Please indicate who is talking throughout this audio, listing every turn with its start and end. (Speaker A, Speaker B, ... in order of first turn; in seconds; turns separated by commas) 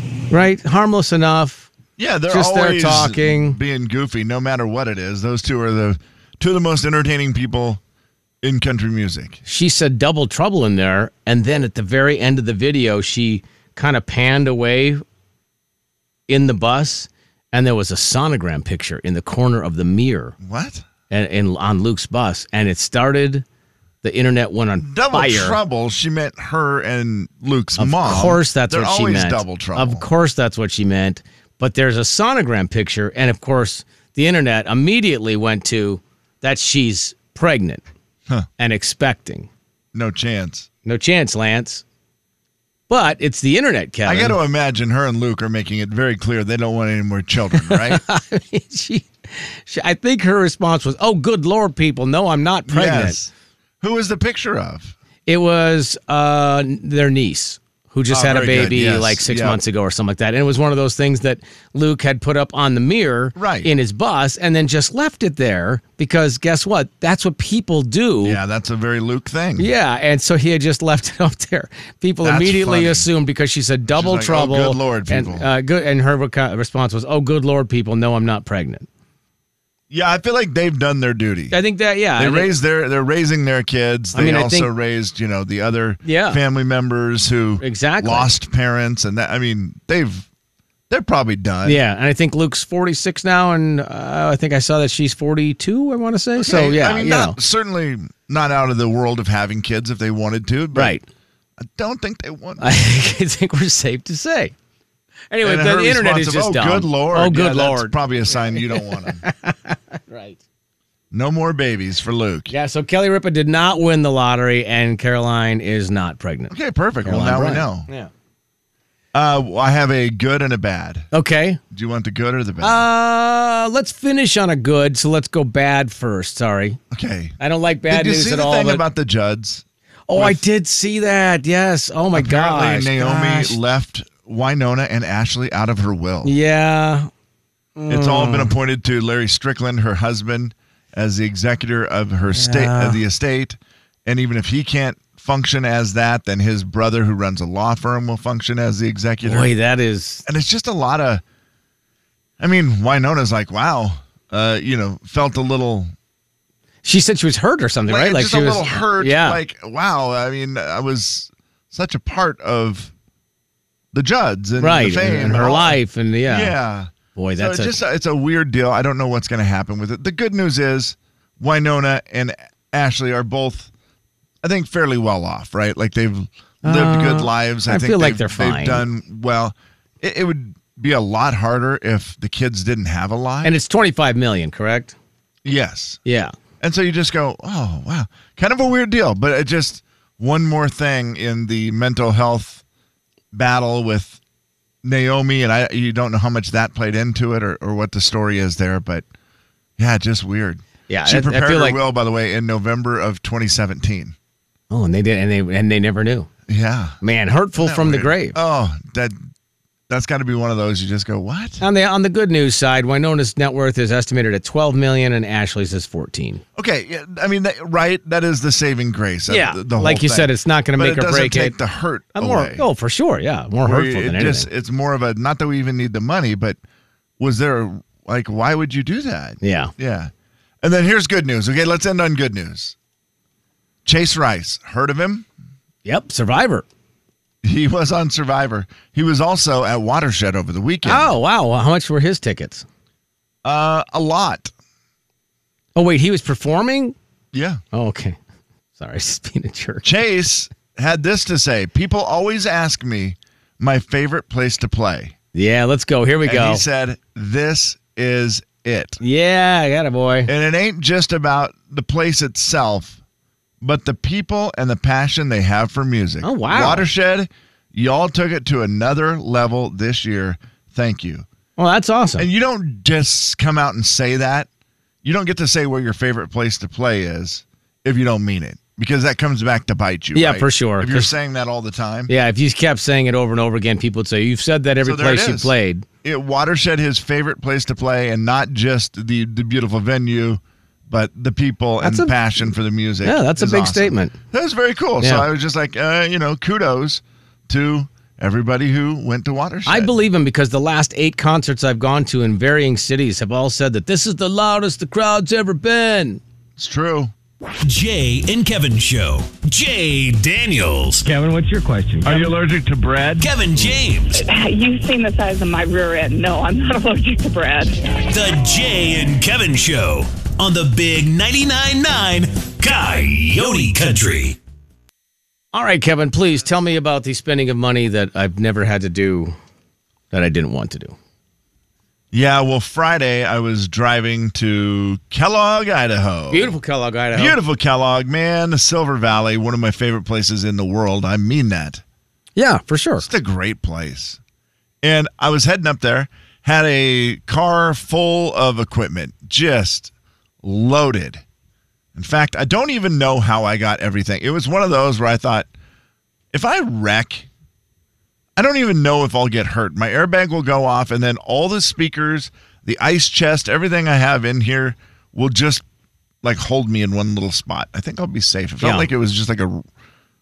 Speaker A: 0.3-1.7, Speaker B: 2.0-7.8, Speaker A: 2.3-3.6, Speaker B: 8.4-9.4, Speaker A: 9.4-15.0, Speaker A: 16.3-20.4, Speaker B: 20.4-20.9, Speaker A: 21.1-23.4, Speaker A: 24.0-25.6, Speaker B: 24.8-30.1, Speaker A: 27.8-37.8, Speaker A: 38.6-39.5, Speaker B: 39.9-40.7, Speaker A: 40.9-41.8, Speaker A: 42.9-44.4, Speaker B: 44.0-48.0, Speaker A: 47.6-53.2, Speaker B: 52.7-54.9, Speaker A: 55.3-68.4, Speaker B: 58.1-59.6, Speaker B: 63.4-63.7, Speaker B: 68.2-69.7, Speaker A: 69.6-78.9, Speaker B: 72.2-73.1, Speaker B: 73.9-75.5, Speaker B: 79.9-81.6, Speaker A: 81.5-82.5, Speaker B: 82.2-90.3, Speaker A: 84.1-84.7, Speaker A: 86.0-86.4, Speaker A: 87.6-88.3, Speaker B: 90.9-91.8, Speaker A: 91.7-97.4, Speaker B: 96.4-101.0, Speaker A: 100.7-101.0, Speaker B: 101.6-102.7, Speaker A: 102.6-104.5, Speaker A: 105.3-110.4, Speaker B: 105.4-109.2, Speaker B: 111.1-112.5, Speaker A: 112.5-116.5, Speaker B: 116.5-117.9, Speaker A: 117.0-118.1, Speaker B: 119.1-121.1, Speaker A: 121.1-121.6, Speaker B: 121.7-122.8, Speaker A: 122.6-126.8, Speaker B: 126.9-127.3, Speaker A: 127.4-128.8, Speaker B: 127.9-130.4, Speaker A: 130.1-133.6, Speaker B: 132.1-136.3, Speaker A: 136.2-137.1, Speaker A: 137.8-138.6, Speaker B: 137.9-149.5, Speaker A: 142.3-143.0, Speaker A: 149.2-150.2, Speaker B: 150.3-151.2, Speaker B: 152.4-155.9, Speaker A: 156.8-159.4, Speaker B: 157.9-162.9, Speaker B: 163.9-173.7, Speaker A: 164.6-166.6, Speaker A: 167.2-167.8, Speaker B: 174.4-183.6, Speaker A: 176.6-178.8, Speaker A: 183.4-184.9, Speaker B: 185.4-186.0, Speaker A: 186.1-186.3, Speaker B: 186.6-192.6, Speaker B: 193.3-194.2, Speaker B: 194.8-199.1, Speaker B: 199.8-204.2, Speaker A: 200.9-201.8, Speaker A: 204.7-206.3, Speaker B: 206.5-207.0, Speaker A: 207.0-208.4, Speaker B: 207.6-209.2, Speaker B: 209.9-211.6, Speaker A: 211.6-216.4, Speaker B: 216.6-222.7, Speaker A: 219.3-221.6, Speaker A: 222.2-224.5, Speaker B: 223.6-226.6, Speaker B: 227.2-230.1, Speaker A: 229.4-229.7, Speaker B: 230.6-232.8, Speaker B: 233.8-235.3, Speaker A: 235.8-236.7, Speaker B: 237.4-241.2, Speaker A: 240.8-242.7, Speaker B: 243.4-244.5, Speaker A: 245.8-246.9, Speaker B: 247.3-247.6, Speaker A: 247.7-248.2, Speaker A: 248.8-249.9, Speaker B: 249.8-255.2, Speaker A: 255.3-256.6, Speaker B: 256.2-259.0, Speaker A: 259.0-260.3, Speaker B: 260.3-263.0, Speaker B: 263.6-271.3, Speaker A: 266.2-266.9, Speaker A: 271.6-272.3, Speaker B: 272.2-274.5, Speaker B: 275.0-282.1, Speaker A: 280.1-281.1, Speaker A: 282.1-285.9, Speaker B: 284.8-285.5, Speaker B: 286.0-299.9, Speaker A: 291.8-292.4, Speaker A: 293.0-294.1, Speaker A: 295.0-295.3, Speaker A: 299.7-306.2, Speaker B: 306.6-307.1, Speaker C: 307.6-311.1, Speaker D: 311.0-313.3, Speaker C: 313.2-314.2, Speaker E: 314.1-317.8, Speaker C: 318.1-324.4, Speaker A: 325.5-329.4, Speaker A: 330.1-330.9, Speaker B: 332.1-336.6, Speaker A: 336.3-337.4, Speaker B: 337.1-341.8, Speaker A: 342.4-343.1, Speaker B: 343.0-344.2, Speaker B: 344.8-349.9, Speaker B: 350.4-351.2, Speaker B: 351.9-355.5, Speaker B: 356.3-357.3, Speaker B: 358.4-365.6, Speaker B: 366.2-369.7, Speaker A: 368.6-368.9